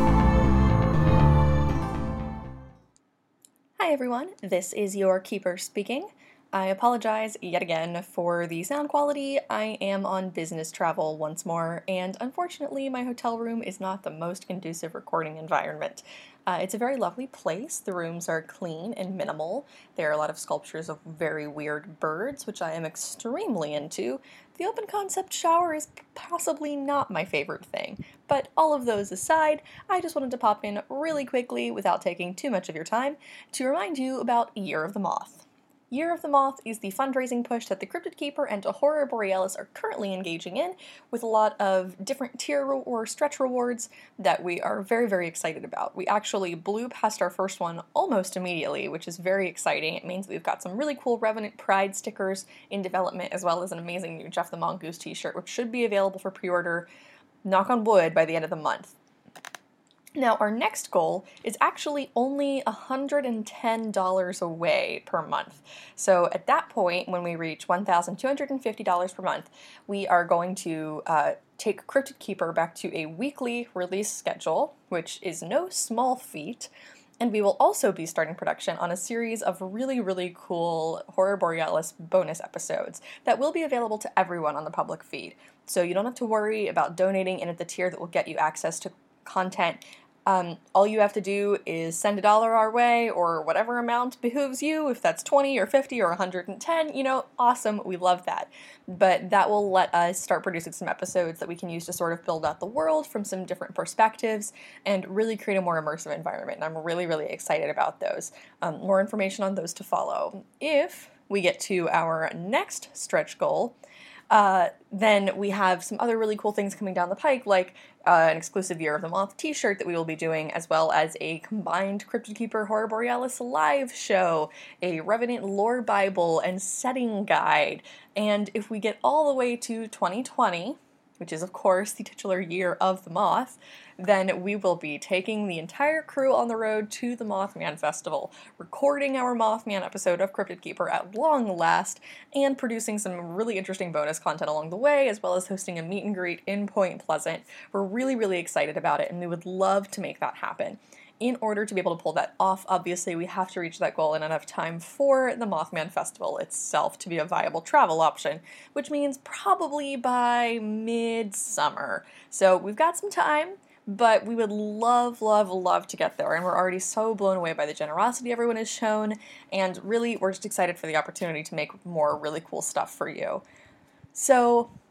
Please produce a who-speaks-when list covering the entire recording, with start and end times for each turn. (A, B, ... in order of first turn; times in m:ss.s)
0:03.8-0:56.9 A
0:57.4-0:58.9 A
1:00.2-1:53.8 A
1:54.3-2:53.4 A
2:54.1-2:54.7 A